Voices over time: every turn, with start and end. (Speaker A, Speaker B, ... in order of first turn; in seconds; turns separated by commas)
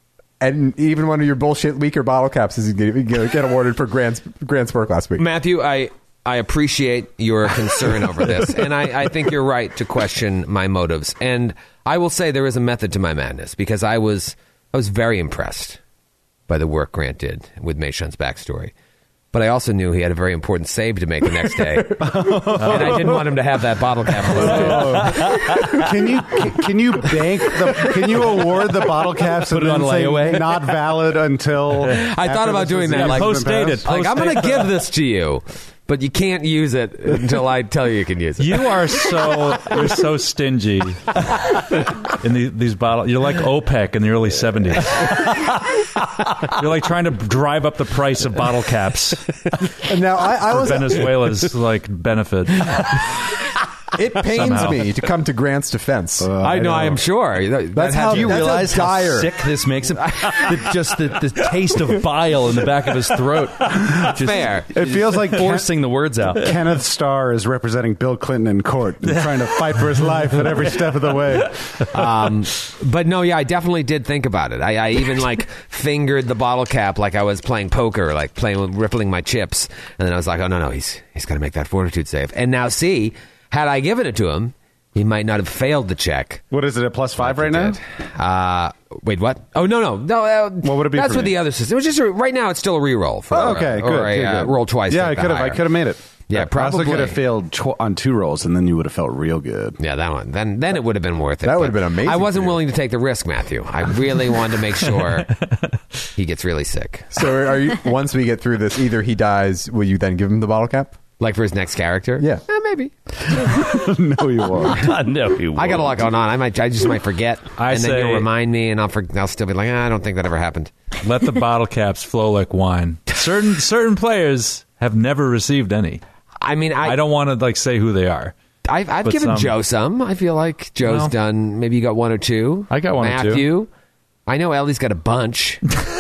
Speaker A: 0.4-5.2, Speaker B: 5.2-15.8, Speaker B: 16.5-18.7, Speaker B: 19.3-25.2, Speaker C: 22.0-23.0, Speaker C: 24.5-33.8, Speaker D: 24.6-25.0, Speaker D: 29.5-30.8, Speaker B: 31.8-39.0, Speaker E: 32.9-34.7, Speaker E: 38.4-41.2, Speaker E: 42.1-45.8, Speaker E: 46.4-49.3, Speaker A: 49.8-51.5, Speaker E: 50.5-53.1, Speaker A: 54.0-56.3, Speaker E: 54.3-54.9, Speaker C: 56.2-57.0, Speaker B: 56.4-58.7, Speaker A: 57.8-59.3, Speaker D: 58.0-66.5, Speaker B: 64.2-64.7, Speaker C: 64.7-65.7, Speaker C: 66.4-71.6, Speaker E: 69.0-70.9, Speaker B: 71.9-86.4, Speaker C: 86.5-87.8, Speaker B: 87.2-95.7, Speaker C: 90.6-91.4, Speaker C: 93.3-99.8, Speaker B: 96.3-97.2, Speaker B: 99.8-105.4, Speaker A: 101.4-102.6, Speaker B: 106.2-107.1, Speaker A: 107.1-111.0, Speaker B: 111.2-112.9, Speaker C: 113.6-114.8, Speaker D: 114.8-115.9, Speaker B: 115.5-120.7, Speaker E: 117.6-118.3, Speaker E: 121.0-126.0, Speaker B: 126.4-127.0, Speaker E: 126.8-128.3, Speaker B: 128.7-133.7, Speaker E: 129.0-129.5, Speaker E: 130.8-131.1, Speaker D: 132.7-133.5, Speaker B: 134.3-135.6